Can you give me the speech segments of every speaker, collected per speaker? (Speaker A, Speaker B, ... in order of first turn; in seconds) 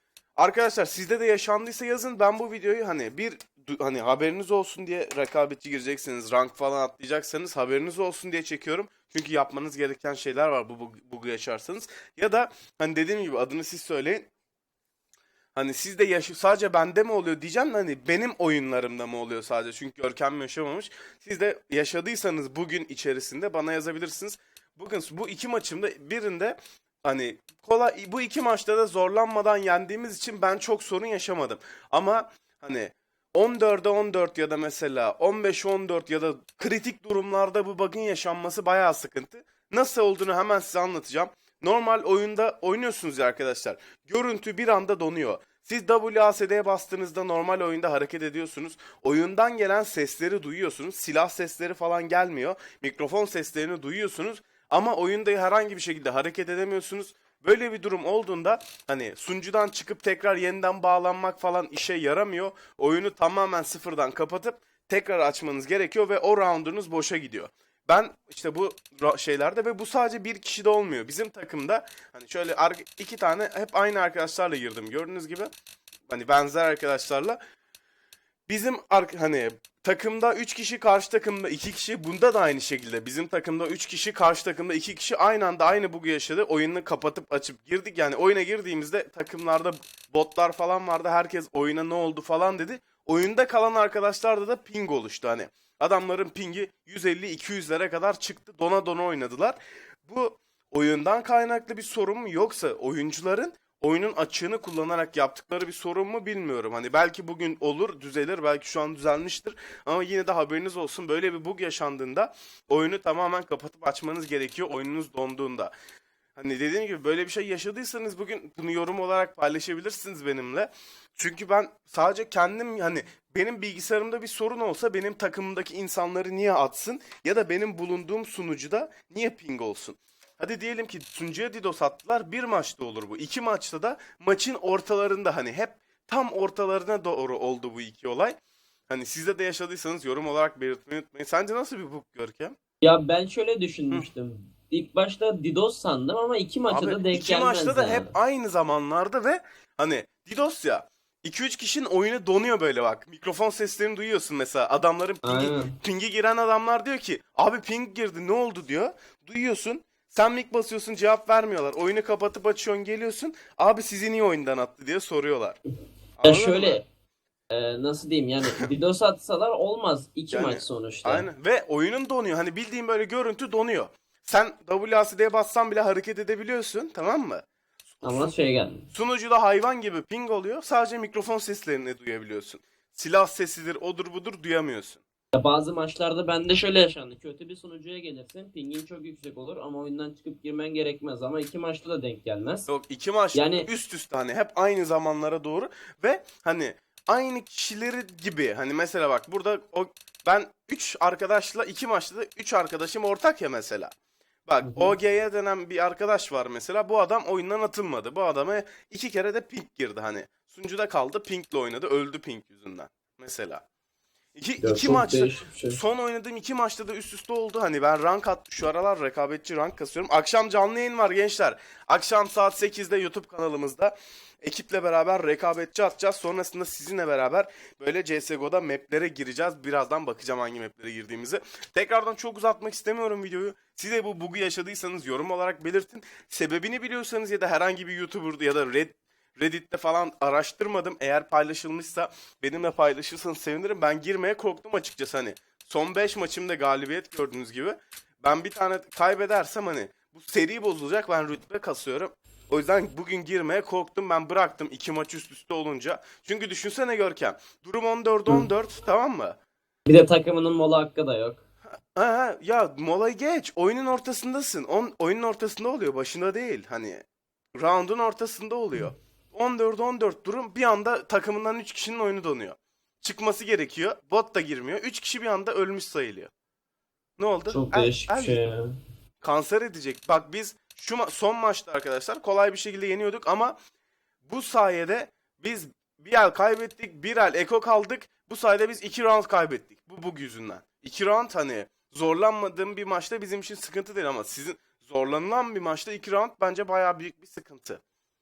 Speaker A: 0.4-14.3, 15.6-75.5, 76.1-77.4, 78.5-115.7, 116.4-138.4, 138.9-142.6, 146.7-165.6, 166.2-166.8, 170.3-178.3, 178.9-185.0, 192.7-203.9, 204.5-213.6, 214.4-259.4, 261.9-267.0, 267.6-276.3, 277.2-278.4, 279.2-283.6, 284.3-297.8
Speaker B: 142.8-148.1, 155.2-155.8, 166.2-166.8, 167.5-171.3, 178.0-178.9, 185.3-192.7, 193.3-193.7, 204.6-204.9, 214.6-215.8, 259.9-261.4, 277.5-278.7